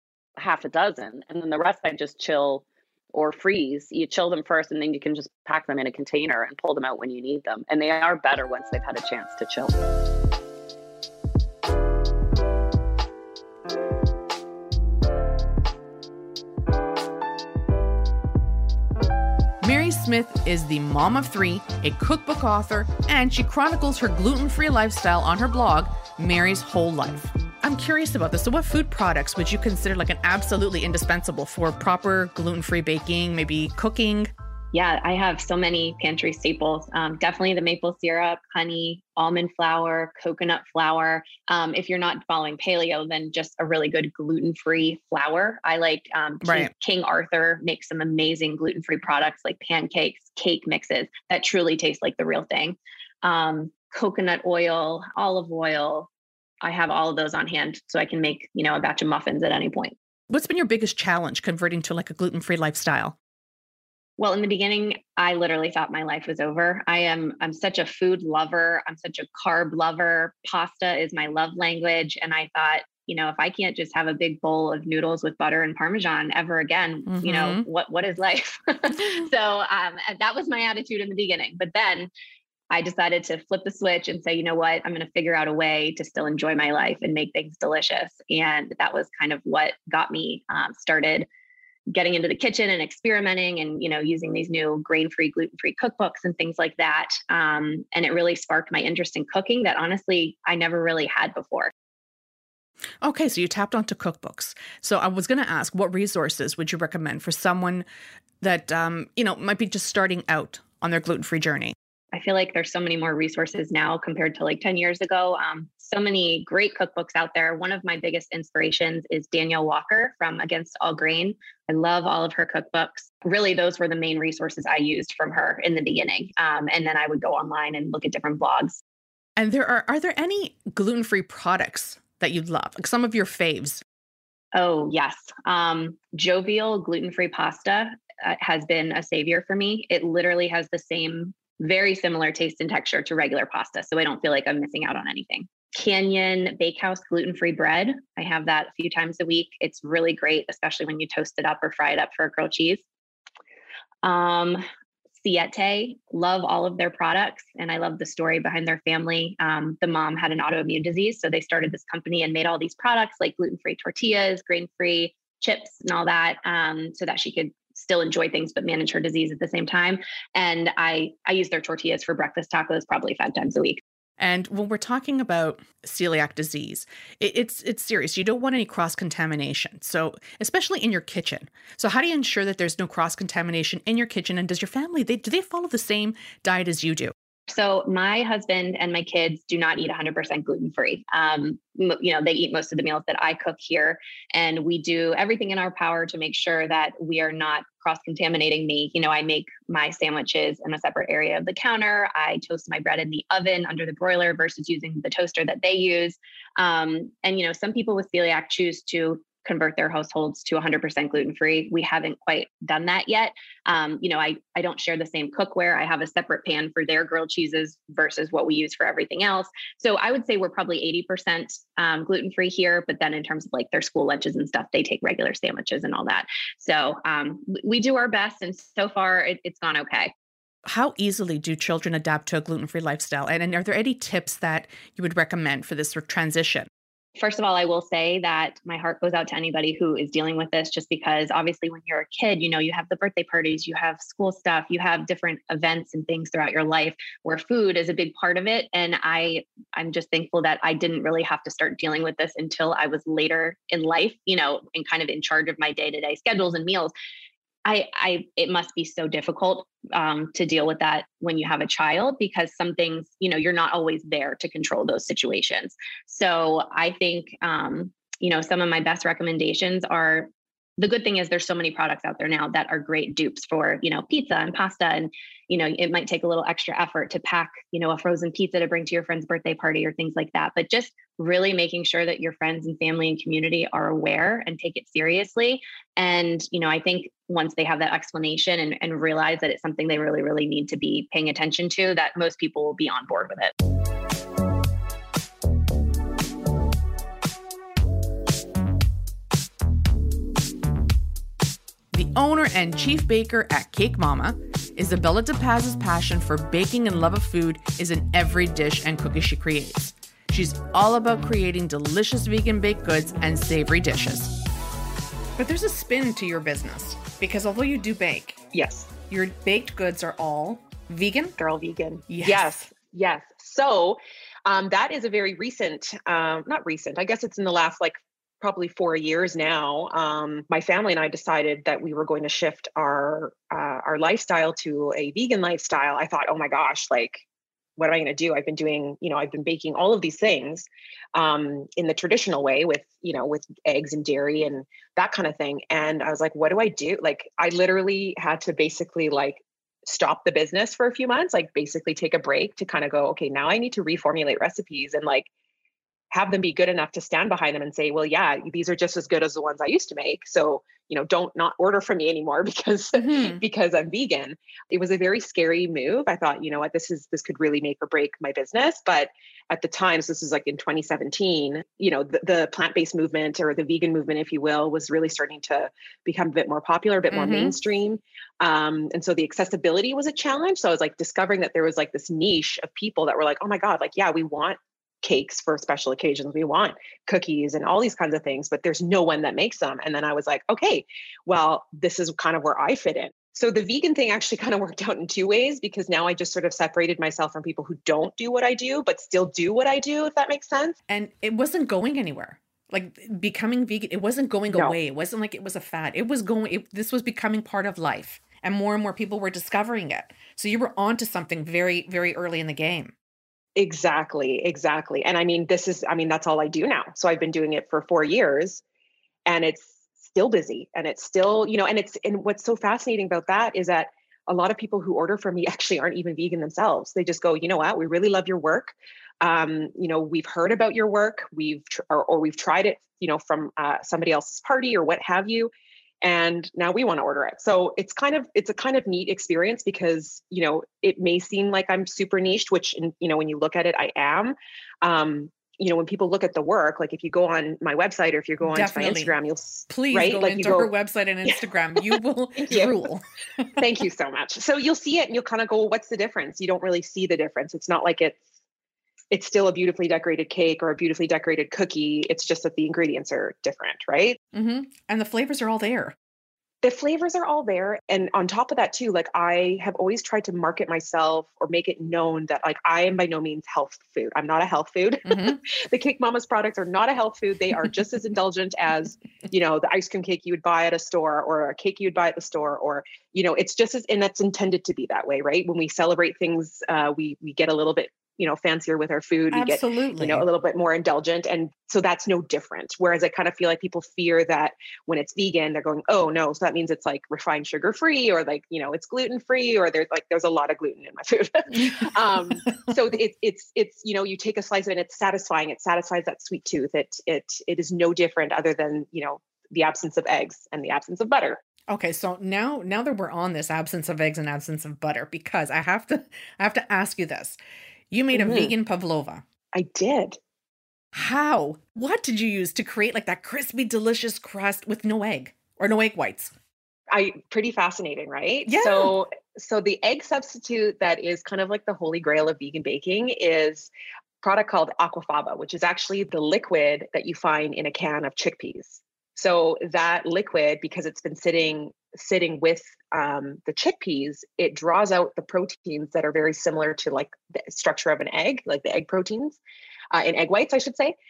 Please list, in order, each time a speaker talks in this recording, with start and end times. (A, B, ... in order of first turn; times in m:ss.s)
0:00.4-0:09.8 A
0:19.6-0:34.3 B
0:34.7-0:56.1 C
0:46.4-0:46.7 B
0:56.6-1:00.0 C
1:00.3-1:03.2 B
1:04.2-1:22.1 C
1:17.1-1:17.6 B
1:22.7-1:31.3 C
1:31.9-1:41.7 C
1:43.0-1:47.9 B
1:48.4-1:51.8 B
1:52.1-2:08.8 C
2:09.4-2:13.8 B
2:14.5-2:32.8 C
2:34.0-2:34.6 C
2:35.2-2:53.8 C
2:54.2-3:07.1 B
3:07.5-3:50.1 C
3:50.6-3:56.7 B
3:57.2-4:16.9 C
4:17.6-4:53.5 C
5:01.9-5:14.3 B
5:15.4-5:18.4 B
5:18.5-5:19.0 D
5:19.0-5:21.4 B
5:21.4-5:37.2 D
5:22.1-5:22.7 B
5:37.8-5:55.3 D
5:56.1-6:40.8 D
6:03.0-6:03.4 B
6:17.1-6:17.6 B
6:40.9-6:52.9 B
6:44.5-6:44.8 D
6:53.6-6:58.6 D
6:59.3-7:15.5 D
7:16.0-7:30.7 D
7:28.4-7:33.6 B
7:31.3-7:32.9 D
7:33.6-7:38.2 D
7:39.1-7:44.2 D
7:44.3-7:46.0 B
7:46.6-8:31.4 D
7:55.1-7:55.4 B
8:09.3-8:10.3 B
8:22.4-8:22.7 B
8:31.7-8:37.4 B
8:37.9-8:39.2 B
8:38.1-8:38.6 D
8:39.5-8:40.2 D
8:40.9-8:46.3 B
8:46.9-8:53.7 D
8:48.5-8:49.0 B
8:54.2-9:09.4 D
9:09.9-9:11.0 D